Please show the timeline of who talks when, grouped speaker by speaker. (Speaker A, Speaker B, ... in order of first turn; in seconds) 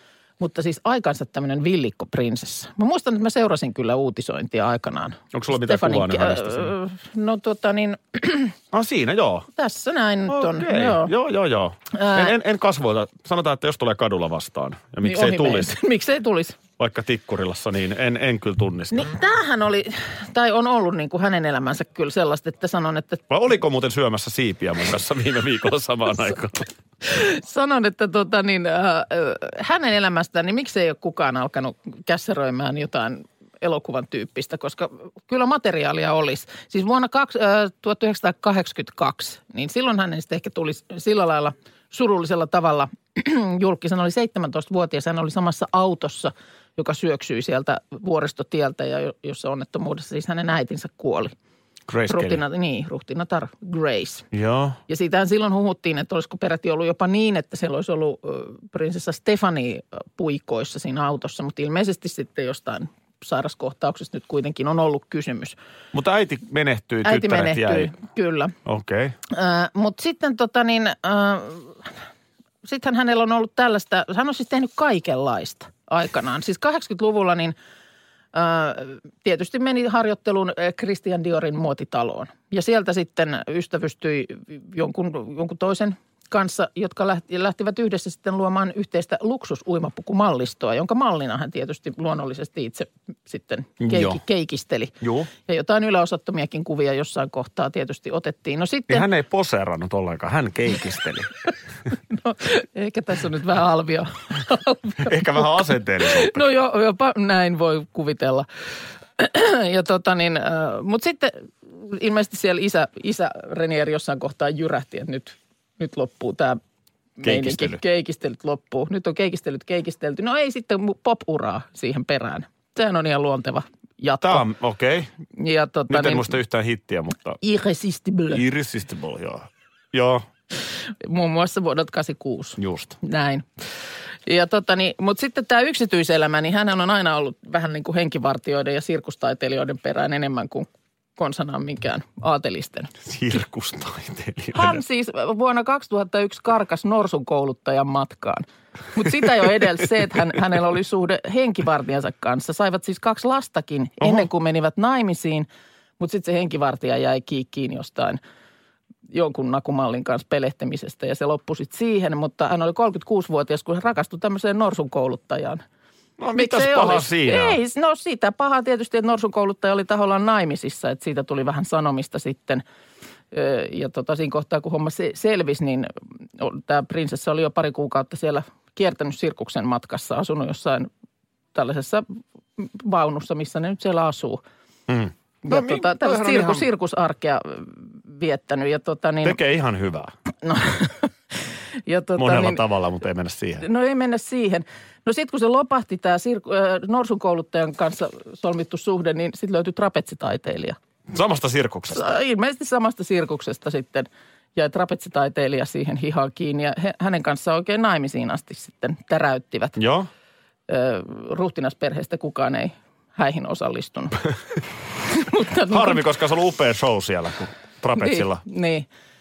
Speaker A: 0.4-8.5, 9.6-11.1, 11.9-12.3, 15.0-16.6, 18.9-23.2, 27.0-51.3, 52.1-54.3, 54.9-65.6, 67.0-68.5, 69.3-71.9, 72.6-77.5, 78.3-99.1, 102.1-105.5, 106.0-108.5, 109.2-116.6, 117.2-124.5, 125.4-126.3, 127.4-128.4, 131.0-133.5, 134.3-142.9, 144.5-155.5, 156.0-158.2, 159.1-165.6, 166.3-172.6, 173.3-180.9, 181.5-182.1, 182.6-184.4, 185.4-189.4, 190.4-191.1, 191.9-192.6, 193.6-200.8, 201.9-209.8, 210.7-214.2, 215.1-216.0, 218.0-218.9
Speaker B: 5.3-6.7, 8.7-9.5, 10.3-15.7, 16.8-19.1, 23.3-26.7, 51.9-52.4, 54.3-54.8, 65.9-67.9, 68.7-69.2, 93.8-94.2, 95.0-95.3, 98.9-101.3, 105.0-106.4, 117.2-117.8, 124.2-125.1, 125.9-127.4, 128.3-130.3, 132.6-132.9, 143.0-144.8, 154.0-154.3, 166.2-167.6, 184.9-186.7, 189.2-190.1, 192.2-193.7, 201.1-202.1, 209.8-210.1, 215.6-218.4